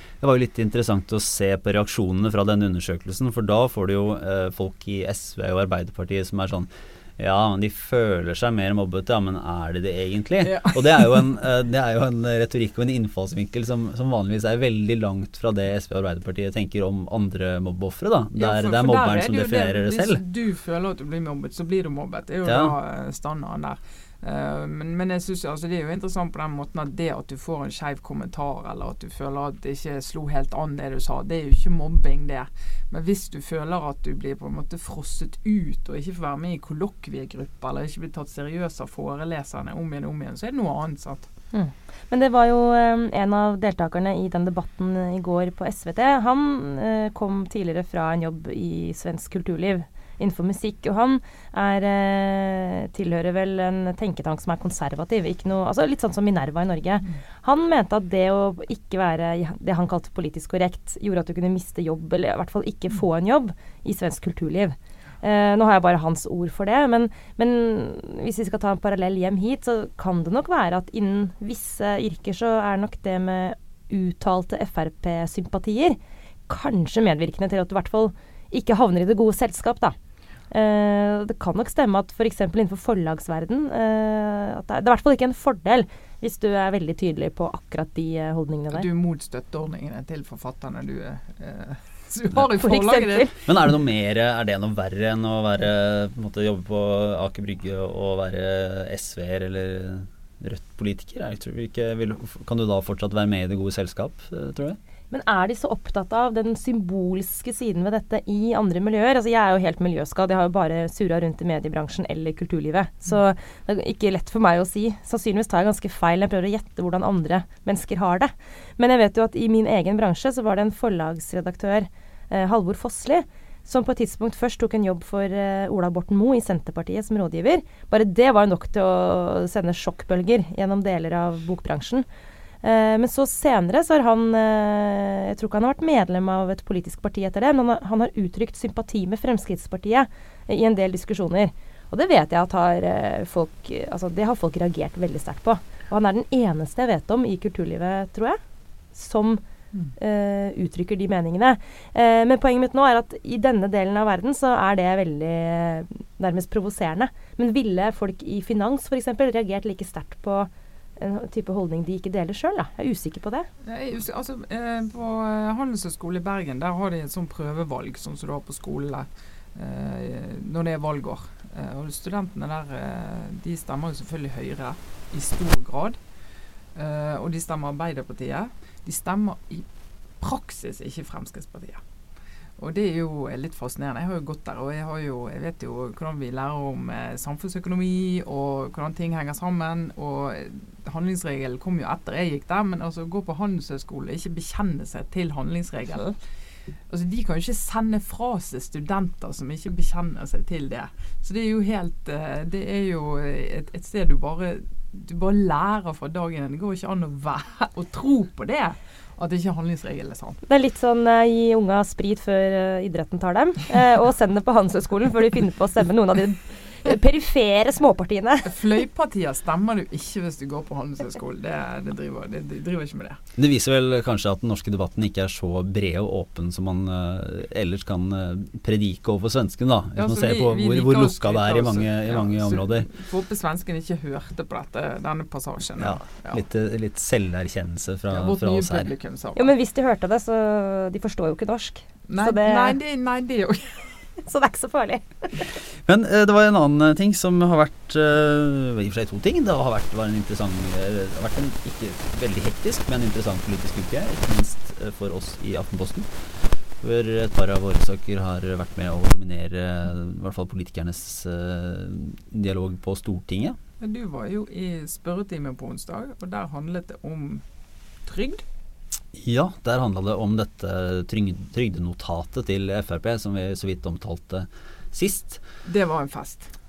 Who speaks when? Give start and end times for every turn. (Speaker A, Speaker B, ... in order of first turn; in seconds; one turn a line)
Speaker A: 0.2-20.2
Speaker B: 10.4-11.2
Speaker B: 18.4-41.3
Speaker A: 22.4-22.7
Speaker C: 41.5-80.0
Speaker C: 80.5-88.9
Speaker B: 88.7-93.3
Speaker C: 92.5-93.3
Speaker A: 93.4-104.8
Speaker C: 105.1-132.1
Speaker C: 132.6-148.4
Speaker C: 148.9-149.4
Speaker C: 150.0-163.5
Speaker B: 163.6-176.0
Speaker B: 176.7-179.7
Speaker B: 180.2-181.8
Speaker B: 182.6-196.2
Speaker B: 196.9-210.4
Speaker C: 210.4-218.6
Speaker B: 218.4-223.2
Speaker A: 223.4-232.9
Speaker B: 229.9-236.4
Speaker A: 235.8-238.9
Speaker B: 238.1-239.5
Speaker C: 239.3-242.8
Speaker B: 242.1-243.9
Speaker C: 244.2-245.5
Speaker A: 245.8-263.6
Speaker B: 263.8-267.4
Speaker B: 268.0-268.4
Speaker A: 269.1-275.4
Speaker B: 275.6-276.5